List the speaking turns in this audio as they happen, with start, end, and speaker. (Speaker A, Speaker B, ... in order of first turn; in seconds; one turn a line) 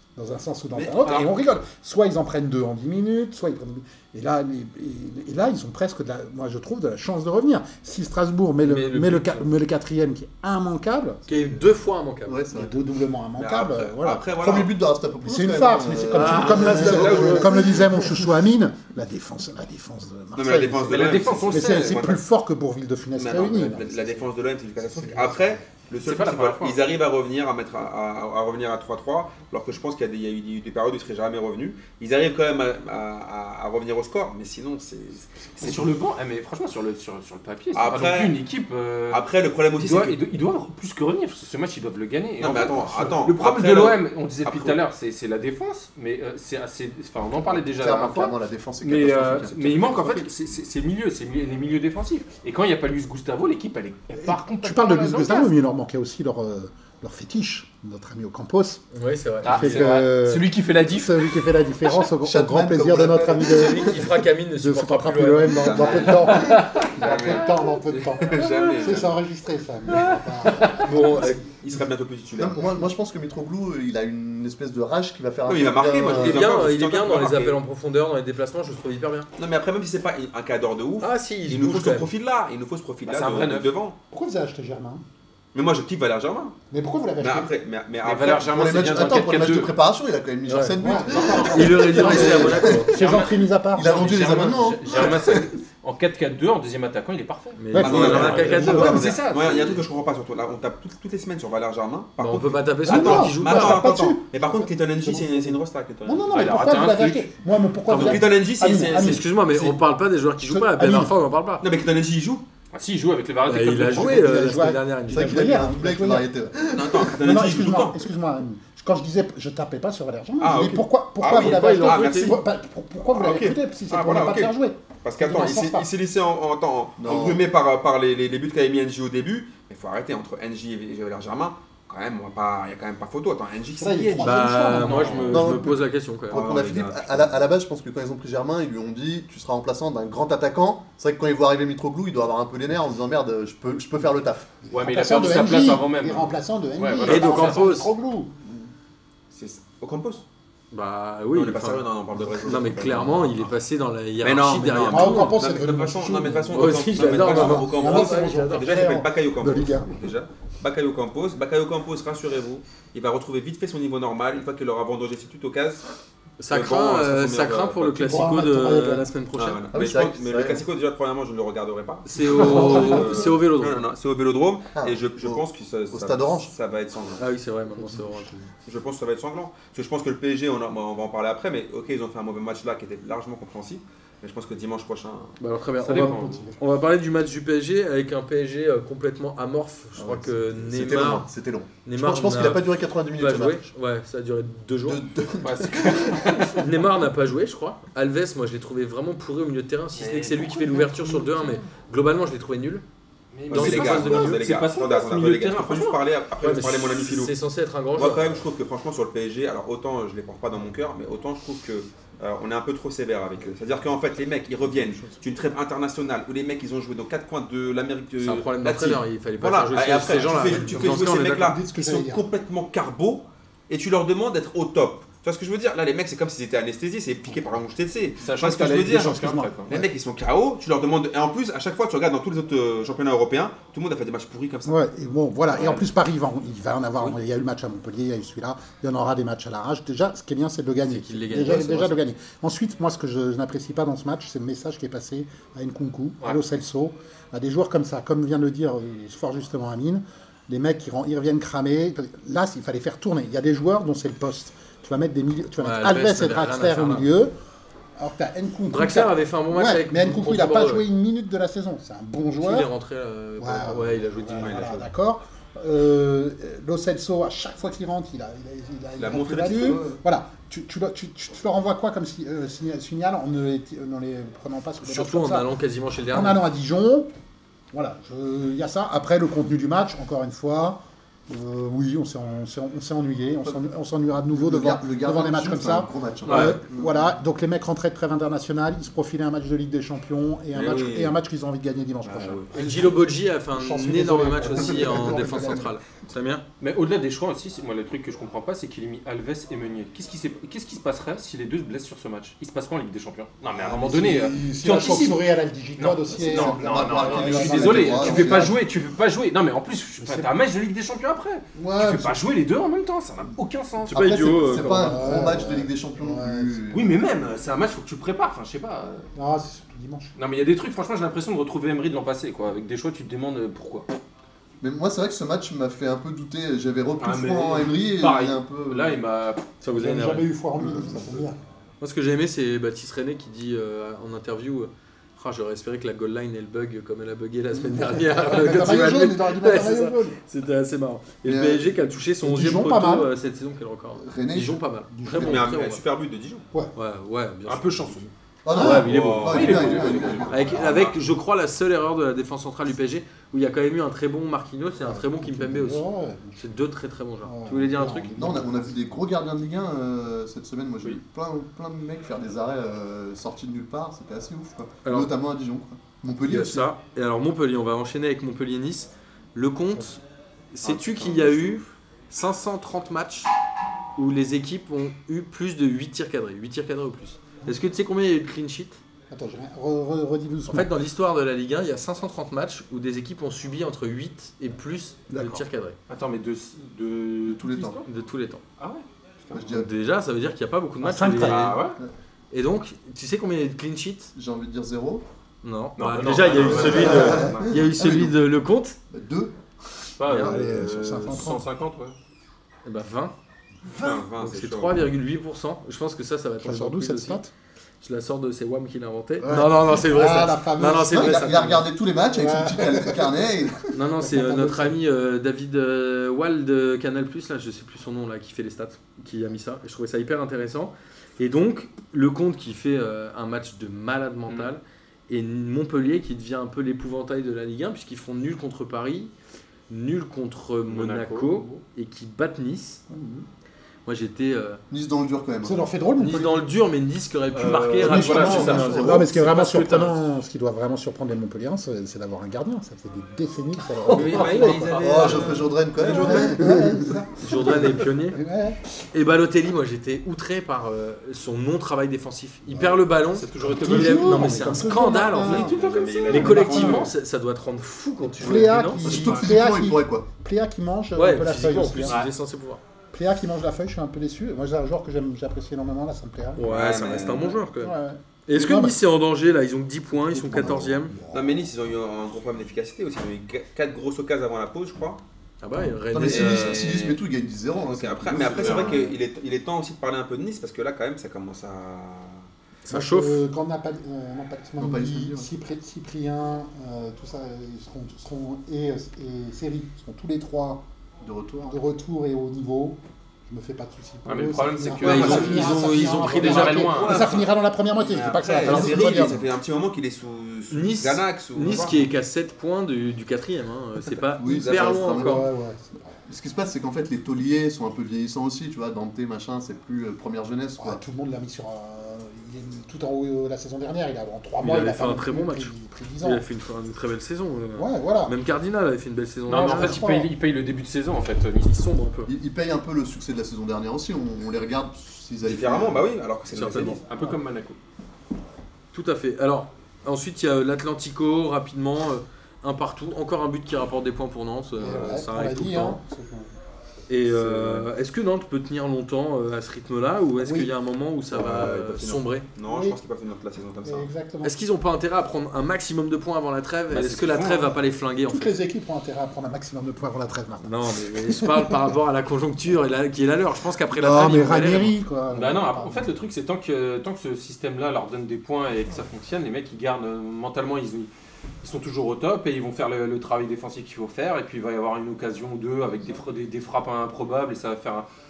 Speaker A: 0.2-11.2
Speaker B: 0.8-1.2
Speaker C: 8.6-9.5
Speaker C: 11.3-12.4
Speaker D: 12.3-12.8
Speaker A: 12.5-14.7
Speaker B: 13.4-14.7
Speaker D: 14.4-18.3
Speaker A: 15.2-24.1
Speaker C: 16.1-17.5
Speaker B: 16.5-17.5
Speaker B: 20.4-22.2
Speaker E: 20.9-22.1
Speaker B: 23.2-35.8
Speaker A: 24.9-25.6
Speaker E: 26.0-26.8
Speaker E: 35.6-39.2
Speaker B: 37.7-38.4
Speaker B: 39.1-40.2
Speaker E: 39.8-55.5
Speaker B: 42.4-44.8
Speaker D: 47.5-50.3
Speaker A: 54.2-58.8
Speaker C: 58.9-59.9
Speaker E: 59.4-61.6
Speaker A: 59.4-71.3
Speaker D: 62.2-64.1
Speaker C: 63.4-66.8
Speaker B: 65.5-67.5
Speaker E: 66.3-67.6
Speaker B: 68.2-69.2
Speaker E: 68.2-69.0
Speaker E: 69.9-70.8
Speaker C: 70.7-71.4
Speaker B: 71.1-72.7
Speaker D: 72.3-76.6
Speaker B: 75.5-77.6
Speaker C: 76.1-79.3
Speaker B: 79.4-84.0
Speaker C: 81.0-82.1
Speaker E: 83.1-83.8
Speaker A: 84.1-85.0
Speaker B: 85.5-86.5
Speaker A: 86.7-87.5
Speaker B: 87.2-89.2
Speaker E: 88.0-89.8
Speaker D: 88.5-93.0
Speaker C: 90.5-92.9
Speaker A: 90.8-94.2
Speaker E: 91.1-99.8
Speaker D: 93.8-95.5
Speaker C: 97.6-99.1
Speaker A: 97.7-99.1
Speaker B: 97.8-106.7
Speaker C: 102.2-103.9
Speaker A: 102.8-109.8
Speaker E: 106.3-107.3
Speaker B: 107.9-109.2
Speaker C: 108.7-111.7
Speaker A: 110.4-111.2
Speaker B: 111.6-112.5
Speaker E: 112.7-114.3
Speaker C: 113.5-115.5
Speaker A: 113.9-116.3
Speaker D: 115.1-117.3
Speaker B: 116.7-118.0
Speaker A: 117.2-125.9
Speaker B: 120.4-122.4
Speaker C: 121.3-122.4
Speaker B: 123.2-134.6
Speaker D: 127.0-127.5
Speaker A: 133.8-135.6
Speaker C: 134.2-136.4
Speaker E: 134.7-135.5
Speaker D: 135.3-144.5
Speaker B: 136.3-137.3
Speaker A: 144.7-148.3
Speaker E: 144.7-147.6
Speaker C: 147.1-147.9
Speaker B: 149.3-150.2
Speaker C: 150.7-155.4
Speaker B: 151.3-153.5
Speaker B: 154.2-165.8
Speaker A: 154.9-159.9
Speaker C: 156.5-158.6
Speaker C: 166.4-169.7
Speaker B: 166.5-168.3
Speaker A: 168.0-169.1
Speaker B: 169.3-177.3
Speaker D: 169.7-170.7
Speaker C: 172.1-173.8
Speaker D: 172.3-173.3
Speaker D: 174.8-176.5
Speaker C: 177.2-178.3
Speaker A: 177.8-178.5
Speaker B: 178.7-185.4
Speaker C: 185.4-191.3
Speaker A: 185.8-186.6
Speaker E: 185.8-186.4
Speaker D: 190.0-193.7
Speaker C: 191.8-195.0
Speaker D: 194.9-196.5
Speaker E: 195.4-196.6
Speaker C: 196.4-202.8
Speaker E: 199.9-201.2
Speaker A: 200.8-201.6
Speaker E: 203.3-206.0
Speaker B: 203.5-207.4
Speaker C: 203.5-204.4
Speaker C: 206.4-208.5
Speaker B: 207.9-229.2
Speaker C: 218.2-221.6
Speaker A: 220.3-222.2
Speaker E: 228.2-229.8
Speaker A: 228.9-229.9
Speaker B: 229.7-234.8
Speaker A: 234.7-257.3
Speaker B: 235.5-235.8
Speaker C: 240.8-242.0
Speaker C: 255.6-257.1
Speaker A: 258.0-262.7
Speaker C: 258.7-260.9
Speaker C: 262.4-264.9
Speaker A: 263.4-275.5
Speaker B: 264.4-264.8
Speaker B: 269.0-269.8
Speaker D: 269.5-270.0
Speaker C: 274.8-276.4
Speaker A: 276.1-277.1
Speaker A: 277.7-295.7
Speaker D: 284.3-287.0
Speaker C: 286.2-286.6
Speaker B: 290.5-291.1
Speaker B: 292.1-292.4
Speaker C: 292.5-296.4
Speaker D: 294.4-295.7
Speaker E: 296.6-305.2
Speaker D: 303.6-305.0
Speaker A: 304.1-308.6
Speaker E: 305.8-314.3
Speaker D: 306.1-308.6
Speaker A: 310.0-310.3
Speaker A: 311.6-312.2
Speaker C: 313.9-315.1
Speaker D: 313.9-316.9
Speaker A: 314.5-316.6
Speaker E: 316.7-319.1
Speaker A: 319.1-320.1
Speaker E: 320.2-323.9
Speaker D: 324.6-329.0
Speaker E: 327.0-329.6
Speaker C: 329.6-330.3
Speaker A: 329.6-331.4
Speaker D: 330.6-331.1
Speaker C: 331.8-345.8
Speaker A: 337.6-340.2
Speaker D: 341.2-341.7
Speaker A: 342.2-343.1
Speaker D: 344.0-344.6
Speaker A: 344.9-345.5
Speaker B: 345.1-346.4
Speaker C: 346.8-355.9
Speaker E: 347.5-348.1
Speaker D: 348.4-350.7
Speaker B: 348.8-350.9
Speaker E: 349.1-350.8
Speaker A: 354.8-356.5
Speaker C: 356.4-358.2
Speaker A: 357.2-359.0
Speaker D: 358.2-366.7
Speaker C: 364.9-365.1
Speaker C: 366.2-370.0
Speaker C: 370.5-373.3
Speaker E: 370.6-371.6
Speaker C: 374.0-378.8
Speaker A: 379.1-380.7
Speaker C: 380.5-385.8
Speaker A: 385.1-385.4
Speaker E: 385.9-387.9
Speaker D: 387.3-387.8
Speaker C: 387.8-388.4
Speaker E: 388.6-389.5
Speaker D: 389.3-389.7
Speaker C: 389.5-391.6
Speaker A: 390.8-391.6
Speaker E: 391.2-391.8
Speaker C: 392.3-394.1
Speaker D: 394.1-395.0
Speaker C: 395.4-398.8
Speaker E: 395.8-397.6
Speaker D: 396.4-398.2
Speaker D: 398.9-399.4
Speaker E: 400.0-401.9
Speaker C: 400.1-400.4
Speaker A: 400.1-401.5
Speaker C: 402.6-403.1
Speaker B: 403.8-404.9
Speaker C: 404.2-407.2
Speaker A: 406.4-407.3
Speaker C: 407.8-411.7
Speaker D: 409.2-409.6
Speaker A: 409.3-411.4
Speaker D: 410.9-413.6
Speaker A: 412.1-413.1
Speaker C: 413.7-429.1
Speaker A: 414.0-414.8
Speaker C: 429.7-432.8
Speaker E: 430.7-431.5
Speaker A: 432.9-433.2
Speaker C: 433.9-434.6
Speaker D: 434.7-435.6
Speaker A: 435.4-436.5
Speaker C: 436.0-439.1
Speaker E: 437.3-440.0
Speaker D: 437.8-439.2
Speaker A: 437.8-445.2
Speaker E: 443.9-446.1
Speaker C: 443.9-446.2
Speaker D: 444.8-447.1
Speaker A: 445.8-448.6
Speaker C: 447.2-448.2
Speaker C: 448.9-455.5
Speaker E: 453.1-456.9
Speaker A: 453.4-455.6
Speaker B: 455.3-456.9
Speaker C: 456.1-459.3
Speaker A: 456.1-456.9
Speaker A: 458.1-462.0
Speaker D: 458.2-460.1
Speaker C: 461.0-462.6
Speaker E: 461.8-462.1
Speaker A: 462.9-466.5
Speaker C: 466.4-467.8
Speaker B: 466.4-467.4
Speaker A: 467.6-468.8
Speaker C: 468.3-470.9
Speaker A: 470.1-471.5
Speaker D: 470.3-470.8
Speaker B: 471.1-475.0
Speaker C: 475.4-477.0
Speaker D: 475.9-478.9
Speaker B: 476.0-476.9
Speaker B: 477.6-482.3
Speaker E: 478.3-478.7
Speaker C: 482.6-483.2
Speaker A: 482.7-490.6
Speaker D: 484.6-485.3
Speaker D: 491.0-491.6
Speaker A: 491.5-499.2
Speaker E: 494.1-497.2
Speaker C: 494.8-497.0
Speaker B: 496.7-497.2
Speaker B: 497.8-501.8
Speaker C: 498.5-498.7
Speaker D: 498.5-499.2
Speaker C: 500.5-505.3
Speaker D: 504.1-505.3
Speaker B: 504.3-505.0
Speaker A: 505.0-505.9
Speaker D: 506.1-510.8
Speaker A: 510.6-516.2
Speaker C: 514.4-519.9
Speaker A: 517.6-518.1
Speaker E: 519.3-521.6
Speaker A: 519.3-520.1
Speaker C: 521.4-522.1
Speaker D: 522.1-525.9
Speaker B: 525.2-526.8
Speaker C: 526.3-526.8
Speaker E: 526.8-527.6
Speaker C: 528.7-535.8
Speaker A: 534.6-536.3
Speaker C: 536.9-542.3
Speaker E: 537.2-537.6
Speaker A: 540.2-540.5
Speaker B: 541.1-543.9
Speaker A: 542.5-542.8
Speaker A: 543.6-544.4
Speaker C: 544.2-548.3
Speaker E: 546.7-547.6
Speaker A: 548.1-551.6
Speaker C: 550.4-554.7
Speaker A: 553.7-555.9
Speaker E: 555.1-560.9
Speaker E: 561.4-567.9